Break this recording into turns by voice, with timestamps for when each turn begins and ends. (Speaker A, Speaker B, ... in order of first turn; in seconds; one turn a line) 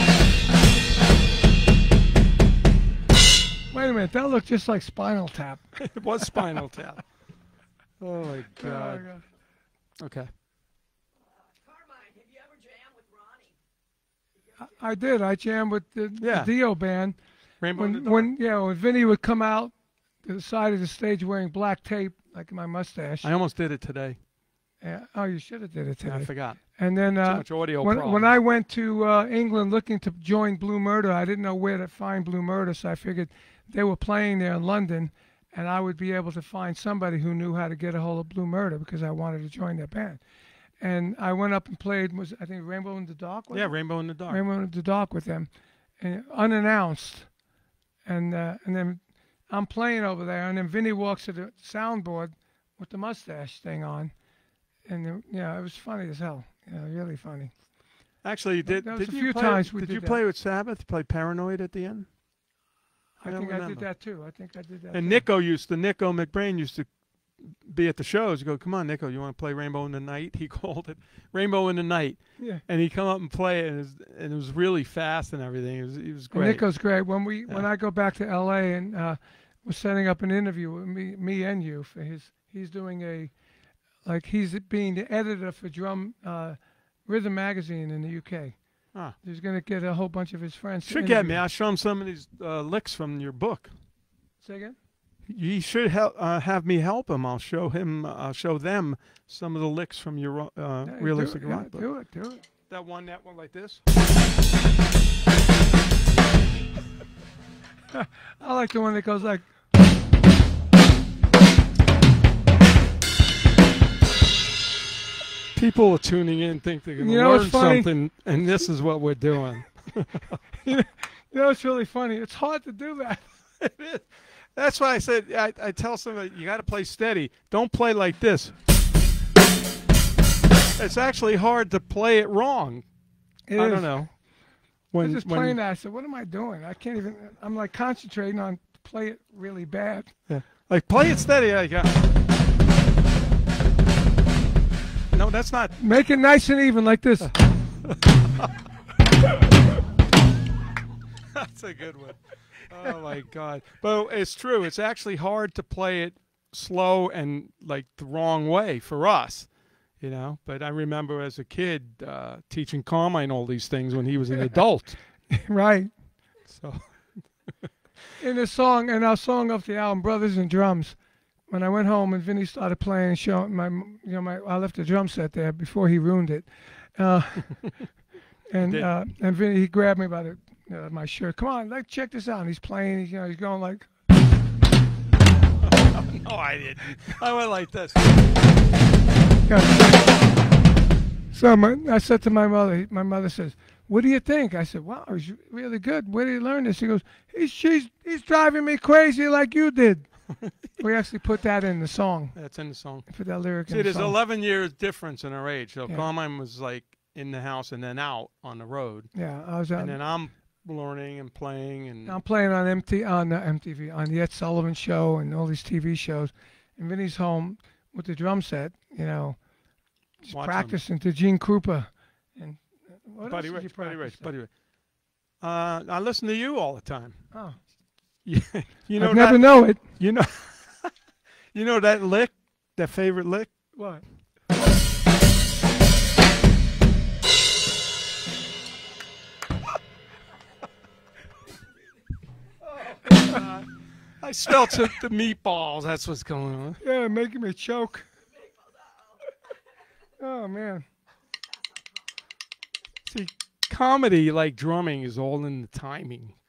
Speaker A: 3.7-5.9
Speaker B: 5.8-7.0
Speaker B: 8.0-9.1
Speaker A: 8.6-9.2
Speaker B: 10.0-10.3
Speaker C: 11.4-13.6
Speaker A: 14.6-17.2
Speaker B: 16.2-16.5
Speaker B: 17.6-18.3
Speaker A: 17.7-23.3
Speaker B: 23.2-24.2
Speaker A: 24.8-40.2
Speaker B: 26.0-28.4
Speaker A: 40.8-47.3
Speaker B: 43.5-44.4
Speaker A: 48.0-54.1
Speaker A: 54.9-57.5
Speaker B: 58.2-62.1
Speaker A: 58.6-60.2
Speaker A: 63.2-65.2
Speaker B: 63.2-63.9
Speaker B: 64.9-76.7
Speaker A: 72.4-72.6
Speaker A: 76.3-83.3
Speaker A: 84.0-91.4
Speaker B: 90.9-93.7
Speaker A: 94.4-94.8
Speaker B: 95.2-101.9
Speaker A: 100.8-102.4
Speaker B: 102.7-103.8
Speaker A: 107.9-109.5
Speaker B: 115.5-120.4
Speaker A: 117.0-117.9
Speaker A: 120.6-123.2
Speaker B: 123.6-128.6
Speaker B: 130.8-132.8
Speaker A: 133.5-134.1
Speaker B: 133.6-134.2
Speaker B: 134.9-135.6
Speaker A: 135.0-140.1
Speaker B: 140.3-142.0
Speaker B: 145.1-145.8
Speaker A: 145.8-147.3
Speaker B: 147.2-148.5
Speaker B: 151.3-165.0
Speaker A: 165.3-165.9
Speaker B: 166.5-167.5
Speaker A: 168.2-177.8
Speaker A: 178.5-183.9
Speaker B: 178.6-178.9
Speaker B: 185.6-188.1
Speaker A: 189.4-190.2
Speaker A: 191.3-200.1
Speaker A: 200.8-202.4
Speaker B: 202.3-203.1
Speaker A: 203.1-204.2
Speaker B: 203.7-209.1
Speaker A: 209.1-210.0
Speaker B: 209.7-212.2
Speaker A: 212.1-219.4
Speaker A: 220.2-224.3
Speaker B: 220.3-220.8
Speaker B: 223.3-224.5
Speaker B: 225.4-227.3
Speaker A: 227.3-227.6
Speaker B: 228.2-230.9
Speaker A: 228.9-229.8
Speaker B: 231.5-233.5
Speaker A: 233.8-234.0
Speaker B: 242.6-246.8
Speaker A: 246.8-248.1
Speaker C: 248.4-249.2
Speaker A: 250.2-250.9
Speaker B: 253.1-256.4